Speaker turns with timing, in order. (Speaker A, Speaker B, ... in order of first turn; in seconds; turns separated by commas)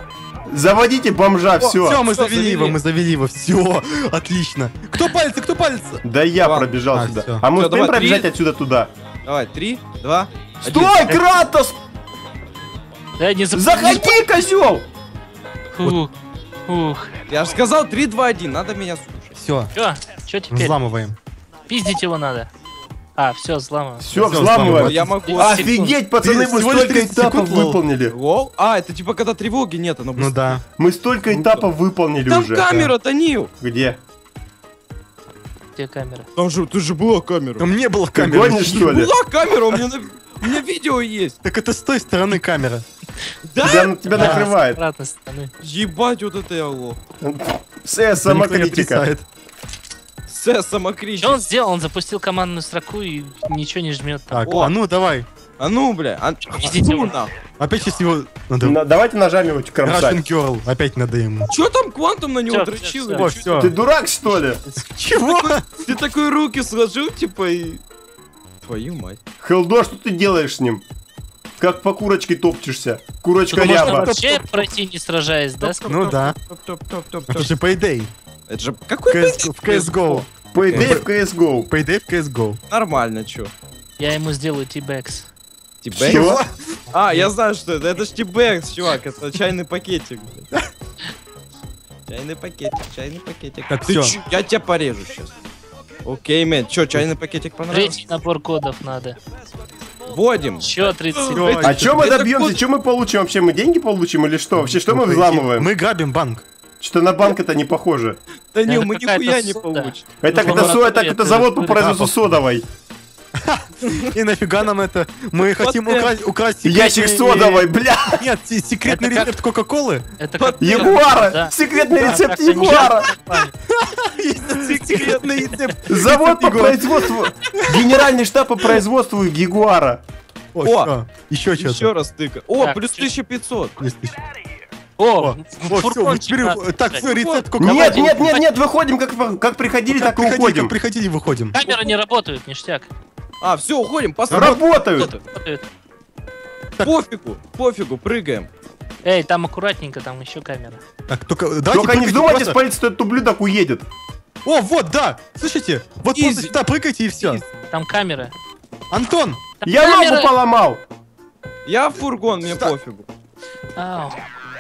Speaker A: 0.5-2.0, Speaker B: 1.6-2.8, Speaker C: 1.8-6.0, Speaker A: 6.0-8.9, Speaker B: 6.4-6.7, Speaker C: 6.9-7.4, Speaker B: 7.5-8.3, Speaker B: 9.3-11.1, Speaker A: 10.6-11.8, Speaker D: 13.2-14.2, Speaker A: 13.5-14.9, Speaker D: 15.8-16.1, Speaker D: 16.7-17.1, Speaker B: 17.3-19.3, Speaker C: 19.4-19.7, Speaker D: 19.8-20.8, Speaker C: 20.5-21.2, Speaker D: 21.7-22.5, Speaker D: 23.2-24.5, Speaker A: 24.0-28.1, Speaker C: 24.2-25.1, Speaker B: 24.6-25.7, Speaker D: 25.3-26.0, Speaker C: 26.2-27.8, Speaker B: 28.1-30.6, Speaker C: 30.2-30.6, Speaker A: 30.8-32.8, Speaker B: 31.3-31.6, Speaker B: 32.3-33.5, Speaker A: 33.6-34.0, Speaker D: 35.8-36.3, Speaker B: 36.4-37.7, Speaker C: 37.6-39.0, Speaker A: 38.1-39.1, Speaker B: 38.8-41.4, Speaker C: 41.4-42.9, Speaker B: 43.5-44.3, Speaker A: 43.6-44.8, Speaker D: 44.1-45.5, Speaker C: 44.2-44.5, Speaker B: 45.6-47.0, Speaker A: 47.2-49.0, Speaker C: 48.2-49.2, Speaker B: 50.3-51.4, Speaker D: 51.2-54.6, Speaker C: 54.3-55.3, Speaker B: 54.5-54.7, Speaker B: 55.6-57.3, Speaker D: 56.6-57.2, Speaker C: 57.6-58.8, Speaker A: 58.6-60.2, Speaker C: 59.8-61.5, Speaker B: 61.5-63.7, Speaker D: 62.5-63.3, Speaker C: 63.2-63.7, Speaker A: 63.6-64.6, Speaker B: 64.8-67.8, Speaker C: 64.9-65.8, Speaker B: 68.6-69.2, Speaker A: 69.4-70.8, Speaker A: 71.6-74.1, Speaker C: 73.5-74.7, Speaker D: 73.7-75.9, Speaker B: 75.6-77.6, Speaker C: 75.9-76.3, Speaker C: 77.3-78.1, Speaker B: 78.5-81.0, Speaker C: 79.1-81.1, Speaker A: 80.5-81.7, Speaker C: 81.7-82.6, Speaker B: 82.7-83.5, Speaker D: 84.0-85.3, Speaker B: 85.8-86.3, Speaker C: 86.0-86.5, Speaker A: 86.0-86.4, Speaker B: 86.9-90.5, Speaker D: 87.0-87.3, Speaker B: 92.1-95.3, Speaker C: 93.7-94.2, Speaker B: 96.0-98.0, Speaker D: 97.7-99.2, Speaker B: 100.1-102.6, Speaker D: 100.6-101.6, Speaker C: 101.3-102.0, Speaker A: 101.6-105.7, Speaker C: 104.6-106.4, Speaker A: 106.8-108.2, Speaker B: 108.5-110.6, Speaker D: 108.7-111.9, Speaker A: 110.2-112.7, Speaker C: 111.8-112.1, Speaker C: 113.4-120.1, Speaker B: 115.4-116.1, Speaker A: 116.6-118.3, Speaker D: 118.9-119.3, Speaker D: 120.2-123.5, Speaker B: 120.4-121.1, Speaker A: 120.6-123.2, Speaker C: 123.3-127.0, Speaker B: 124.6-125.8, Speaker A: 125.9-130.0, Speaker B: 127.5-128.0, Speaker C: 130.5-131.9, Speaker B: 130.6-130.9, Speaker B: 131.6-133.7, Speaker D: 132.6-133.1, Speaker C: 133.8-134.2, Speaker D: 135.0-137.1, Speaker C: 135.2-138.4, Speaker B: 137.0-137.5, Speaker D: 137.6-138.5, Speaker A: 137.6-140.8, Speaker C: 139.9-141.6, Speaker D: 141.5-142.9, Speaker B: 141.7-141.9, Speaker B: 143.4-145.2, Speaker A: 144.3-145.1, Speaker D: 145.0-145.7, Speaker B: 146.8-148.5, Speaker D: 149.0-150.8, Speaker C: 151.1-152.6, Speaker A: 151.7-153.8, Speaker C: 154.4-157.4, Speaker B: 156.2-156.5, Speaker D: 157.7-158.3, Speaker C: 158.9-159.4, Speaker D: 159.6-160.3, Speaker A: 159.6-160.8, Speaker B: 161.7-163.1, Speaker D: 163.8-164.2